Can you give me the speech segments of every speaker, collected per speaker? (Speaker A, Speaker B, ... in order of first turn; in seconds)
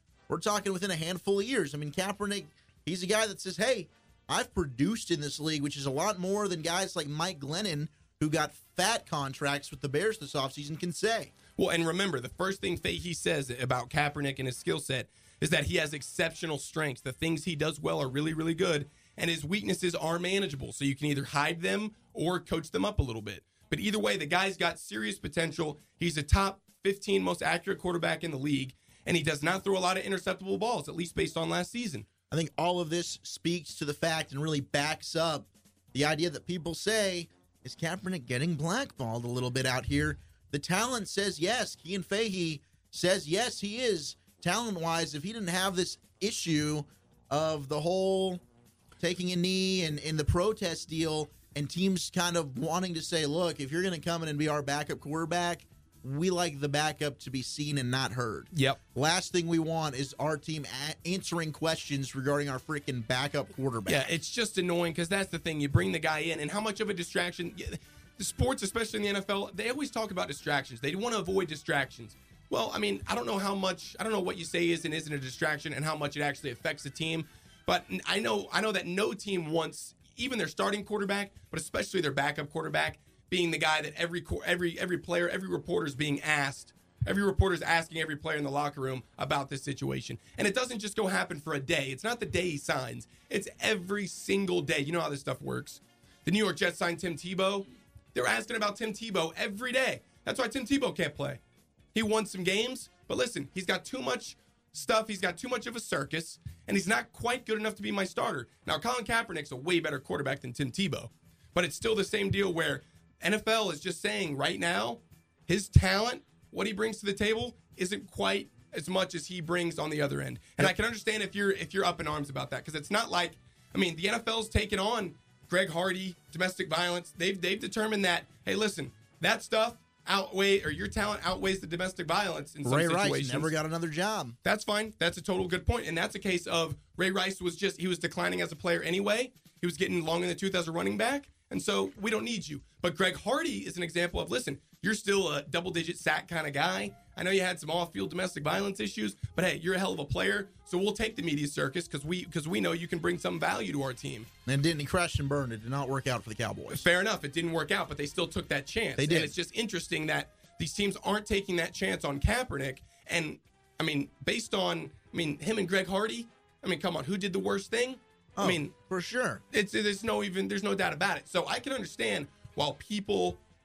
Speaker A: 0.3-11.3, 32.3-48.4, 49.0-64.1, 132.7-134.4, 154.5-156.8, 159.0-159.3, 168.4-169.4
Speaker B: 11.6-32.1, 58.5-58.8, 63.9-101.4, 101.9-133.5, 134.4-154.3, 156.7-168.7, 169.5-173.4